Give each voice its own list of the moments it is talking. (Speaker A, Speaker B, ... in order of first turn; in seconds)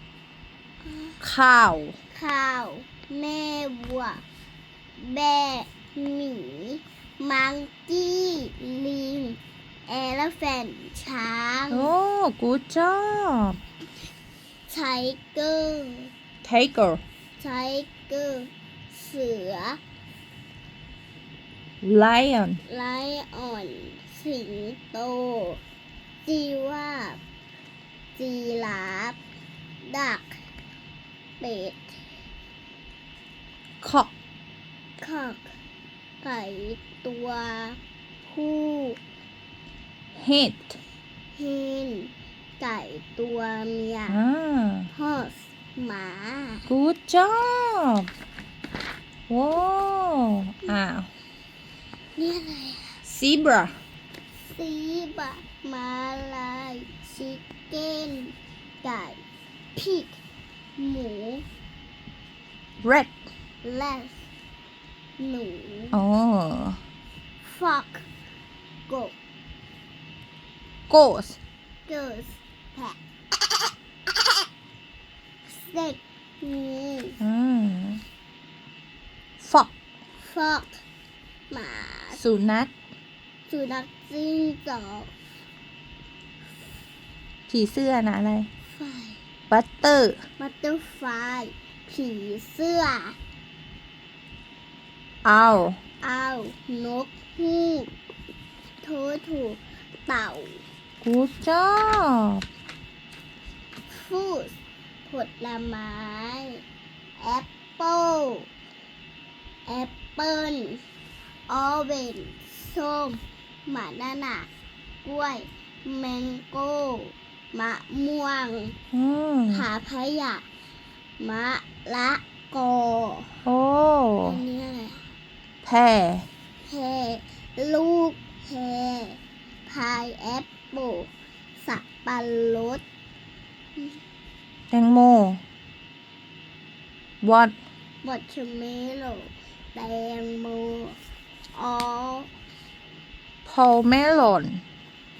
Speaker A: 0.8-1.2, 2.1-4.2, 5.0-11.9, 14.7-16.1, 17.4-19.8, 22.7-25.6, 26.2-27.2, 28.1-29.2, 29.8-30.4, 31.4-32.0, 35.0-35.5, 36.2-39.0, 41.3-44.2, 44.9-46.7, 52.1-53.0, 54.4-59.2, 59.7-60.2, 60.8-61.4, 63.6-64.2, 65.2-66.0, 67.4-68.1, 68.9-69.1, 71.9-74.3, 75.5-77.2, 80.2-80.8, 81.5-82.2, 83.5-85.1, 88.7-89.2, 90.4-93.2, 96.0-97.9, 98.8-100.6, 103.9-104.5, 105.0-106.6, 107.2-108.5, 109.7-110.8, 111.5-114.5, 115.0-118.7, 119.5-120.4, 121.2-123.4, 124.2-125.0, 126.6-132.8, 138.0-141.0, 141.5-142.3
Speaker B: 1.2-2.0, 11.7-13.6, 16.4-17.0, 21.8-22.6, 33.8-34.1, 40.1-40.8, 44.1-44.9, 46.7-48.1, 49.3-51.1, 53.1-53.8, 62.8-63.1, 65.9-66.8, 70.9-71.4, 77.2-78.0, 79.4-79.7, 82.1-82.7, 87.5-88.5, 89.5-90.2, 95.2-95.8, 101.0-102.4, 118.9-119.7, 123.5-124.4, 125.6-126.3, 134.7-135.4, 137.2-137.5, 143.4-144.6